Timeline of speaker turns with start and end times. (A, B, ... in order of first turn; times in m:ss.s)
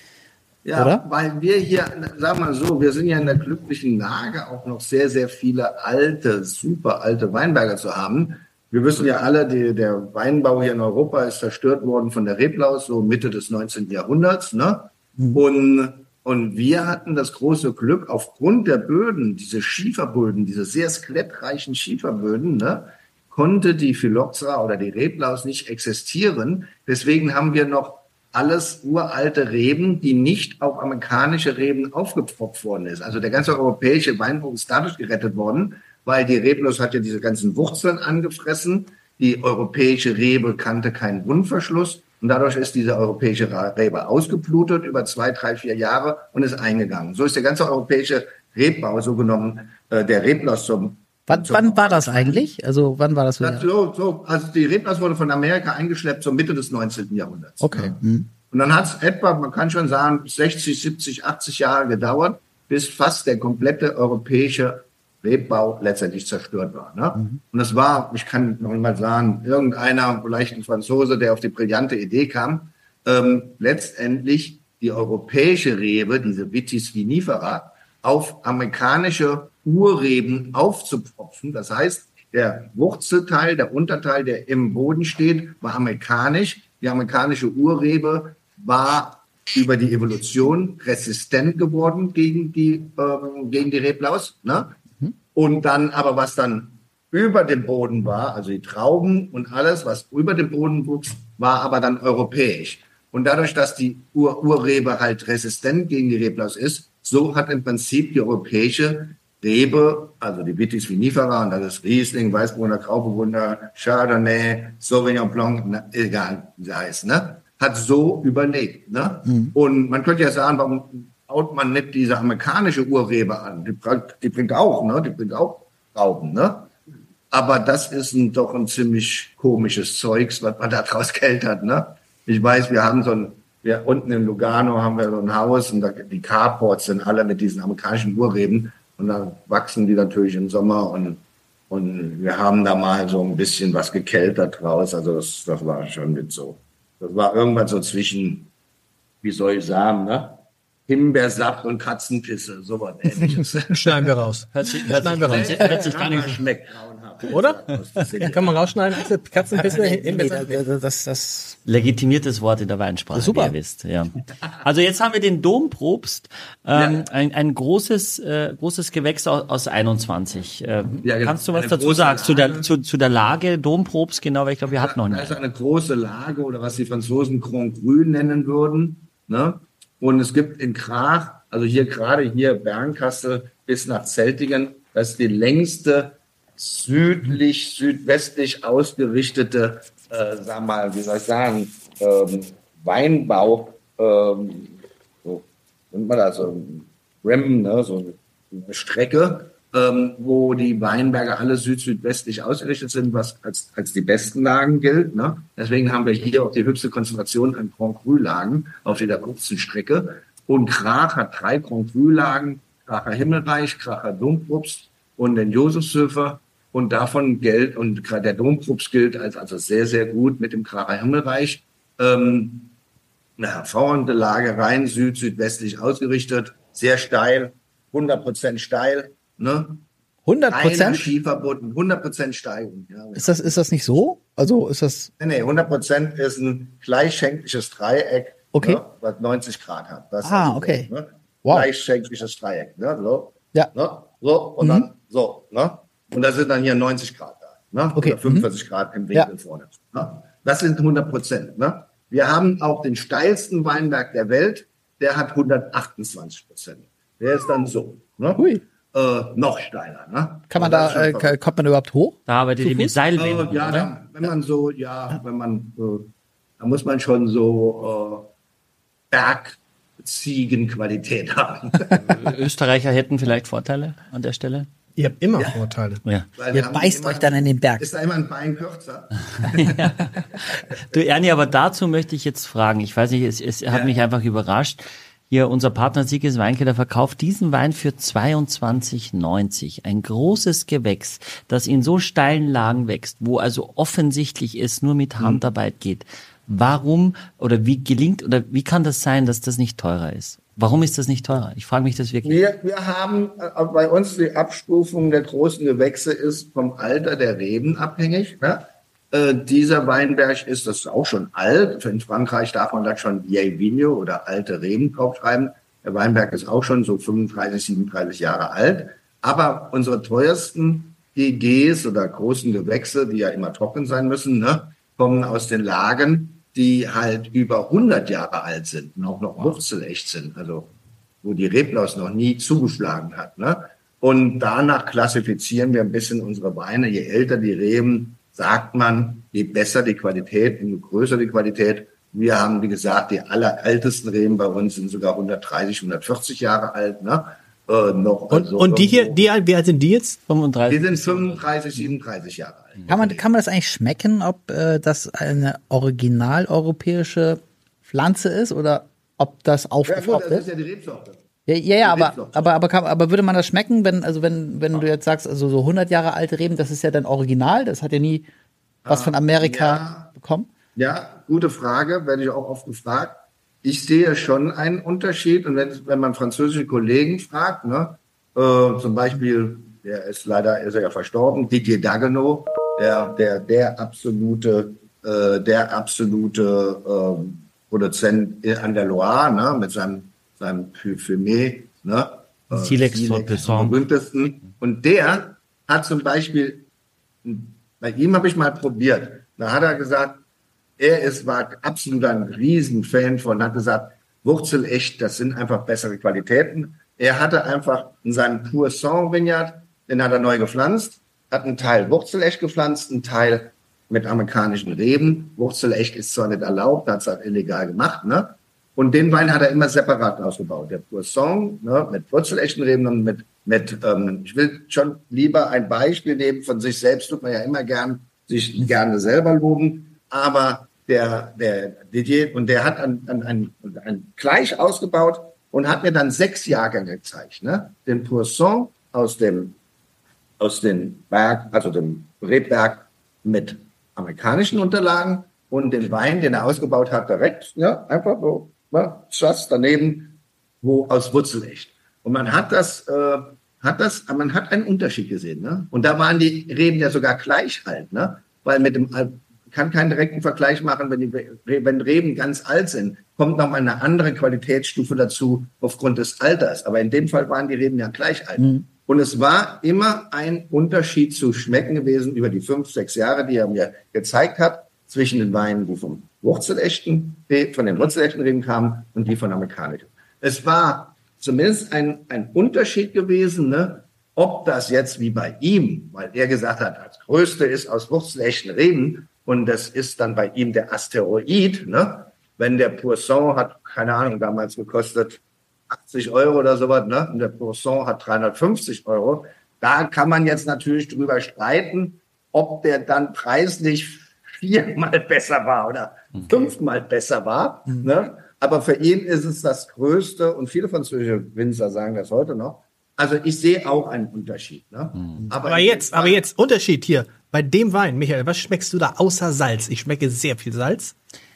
0:00.6-0:52.5 A
0:00.7-0:01.0 B
0:15.2-0:15.4 B
0:51.3-0:53.7 B
0:53.4-0:58.0 A
0:57.6-0:58.3 B
0:58.5-1:34.8 A
1:35.3-2:06.7 A
1:59.2-1:59.5 B
2:07.3-2:28.5 A
2:29.2-2:34.1 A
2:33.7-2:36.3 C
2:34.5-2:36.4 D
2:35.2-2:38.6 A
2:37.3-2:37.6 C
2:38.2-2:40.6 C
2:39.6-2:41.6 B
2:39.8-2:40.6 A
2:41.6-2:55.4 D
2:43.1-2:43.6 B
2:46.7-2:47.0 A
2:51.0-2:52.7 A
2:54.7-3:42.7 A
3:43.4-3:49.8 A
3:50.2-3:51.1 B
3:50.5-3:53.7 A
3:53.2-3:55.1 B
3:55.2-4:21.4 A
3:58.5-3:58.8 B
4:00.2-4:00.9 B
4:04.6-4:04.9 B
4:07.9-4:08.5 B
4:20.5-4:22.9 B
4:22.3-4:23.9 D
4:23.2-4:28.3 A
4:29.1-4:32.3 A
4:32.0-4:34.7 D
4:35.0-4:36.0 C
4:36.4-4:41.0 A
4:36.5-4:37.9 B
4:39.5-4:40.1 D
4:40.8-5:02.4 D
4:43.7-4:44.0 A
4:55.2-4:55.4 A
5:02.2-5:30.7 A
5:31.2-5:49.3 A
5:48.3-5:50.2 C
5:50.3-5:51.5 D
5:50.7-5:53.2 A
5:52.9-6:00.5 B
5:59.8-6:01.2 A
6:01.5-6:08.3 B
6:01.8-6:02.5 A
6:08.8-6:10.1 A
6:08.8-6:10.5 B
6:10.8-6:36.7 A
6:32.5-6:33.8 D
6:37.2-6:40.2 A
6:40.8-7:19.5 A
7:20.4-8:36.2 A
7:48.4-7:48.6 B
8:35.4-8:40.9 C